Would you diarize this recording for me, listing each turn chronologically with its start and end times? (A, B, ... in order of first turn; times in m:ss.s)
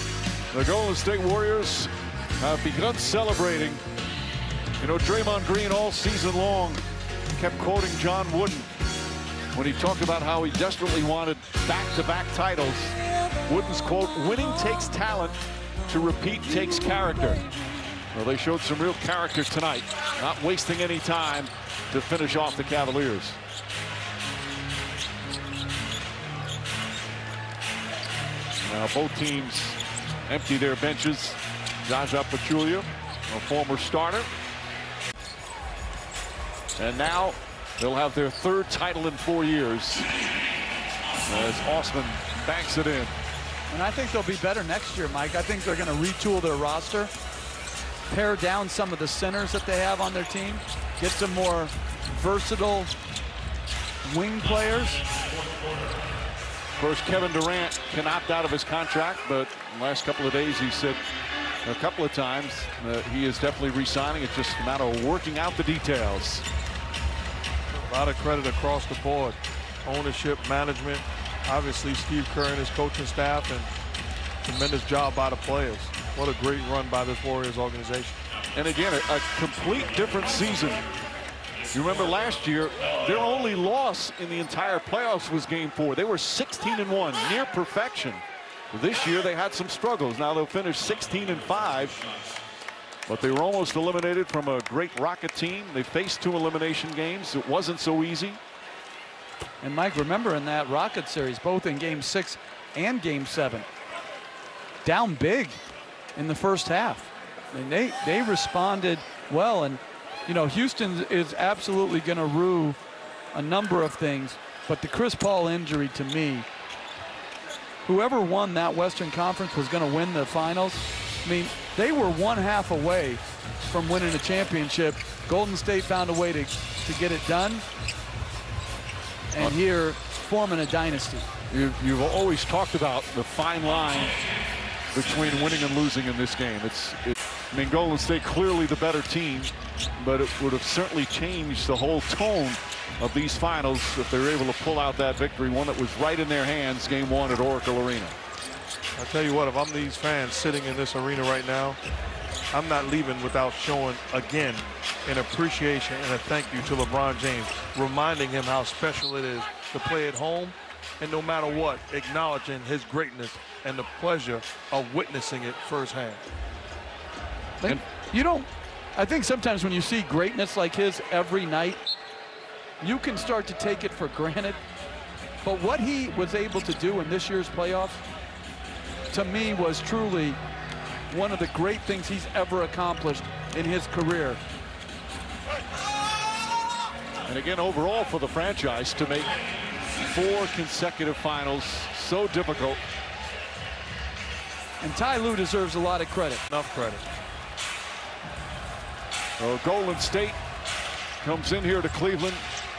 0:00.5-0:03.8 A
0:04.8-0:08.7 A
0:09.5-0:15.4 A
0:15.9-0:17.4 A
0:18.1-0:23.4 A
0:28.6-0:34.3 A
0:36.8-0:40.1 A
0:41.3-0:43.1 A
0:43.7-0:47.1 B
0:48.1-0:52.9 B
0:54.0-0:55.0 B
0:56.8-1:01.0 A
1:01.6-1:06.4 A
1:07.8-1:13.7 C
1:14.4-1:18.2 C
1:18.5-1:20.9 A
1:21.7-1:32.0 A
1:33.1-1:38.4 A
1:39.6-1:43.6 B
1:44.8-1:45.6 B
1:46.2-1:52.8 B
1:53.3-1:56.4 B
1:57.8-2:07.6 B
2:09.3-2:11.2 B
2:11.5-2:14.1 A
2:14.9-2:28.1 A
2:29.0-2:31.8 C
2:32.5-2:46.2 C
2:47.6-2:51.8 B
2:52.8-2:54.6 B
2:55.4-2:58.0 B
2:59.1-3:00.4 B
3:01.1-3:04.4 B
3:07.2-3:09.3 A
3:10.0-3:12.8 A
3:14.8-3:16.4 B
3:16.5-3:17.0 C
3:19.4-3:20.4 A
3:21.2-3:22.5 A